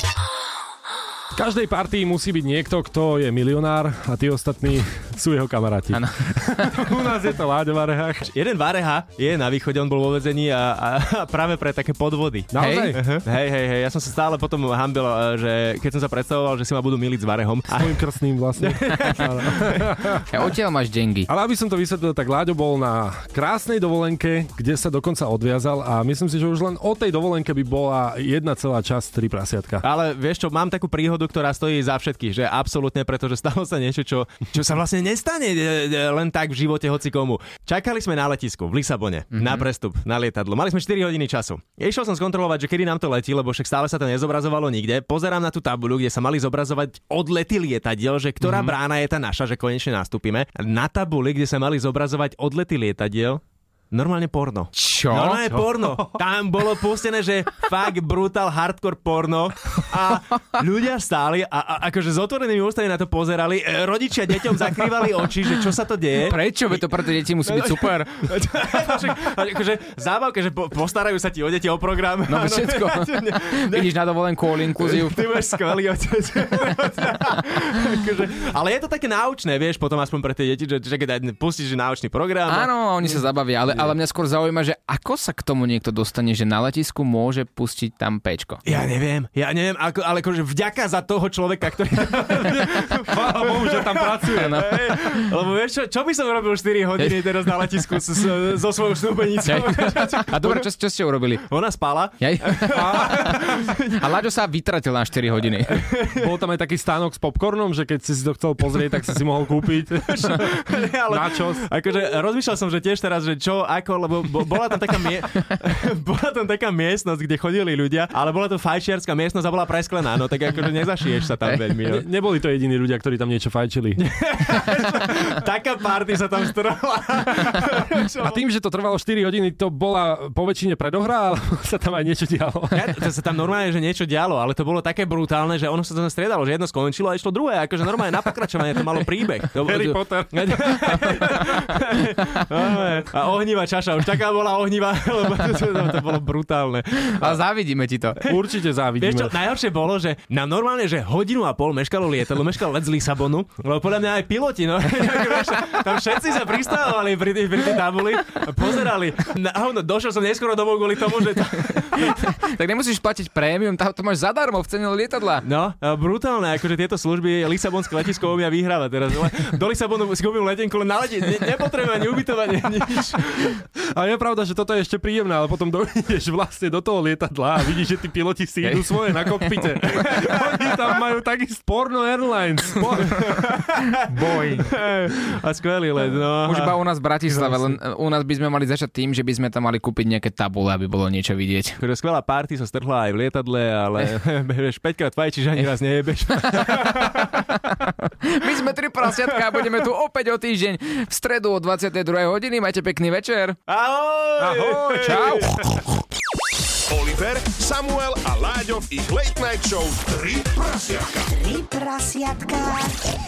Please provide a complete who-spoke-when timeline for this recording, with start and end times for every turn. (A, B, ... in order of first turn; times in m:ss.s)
0:01.3-0:08.3 A
0:05.9-0:06.7 B
0:08.2-0:18.0 C
0:12.5-0:13.0 A
0:12.6-0:13.0 B
0:17.7-0:20.2 A
0:18.6-0:19.9 C
0:20.3-0:21.3 B
0:21.3-0:29.8 A
0:29.8-1:23.9 C
0:39.3-0:39.6 B
0:48.4-0:48.7 A
0:54.7-0:55.4 B
0:55.5-0:56.2 A
1:06.2-1:08.1 B
1:12.3-1:15.2 B
1:22.5-1:28.6 B
1:28.6-1:40.7 C
1:32.2-1:34.6 A
1:34.4-1:35.0 B
1:39.4-1:41.4 B
1:41.5-1:44.0 C
1:42.2-1:45.8 B
1:42.7-1:43.5 A
1:45.7-1:46.3 C
1:46.2-1:51.7 A
1:50.1-2:02.0 C
2:01.8-2:04.0 A
2:04.0-2:08.4 C
2:08.2-2:12.9 A
2:12.7-2:27.4 C
2:19.6-2:21.6 A
2:27.1-2:28.2 B
2:28.2-2:28.4 C
2:28.2-2:29.4 A
2:29.0-2:42.2 C
2:42.0-2:45.4 B
2:45.4-2:53.6 C
2:53.9-3:03.4 A
3:00.1-3:00.4 C
3:03.1-3:06.8 C
3:04.1-3:04.6 B
3:06.4-3:11.8 B
3:07.3-3:07.7 A
3:11.8-3:17.5 C
3:18.2-3:23.6 B
3:23.7-3:25.7 C
3:24.4-3:25.4 A
3:25.0-3:25.5 B
3:26.9-3:31.2 D
3:31.2-3:33.1 E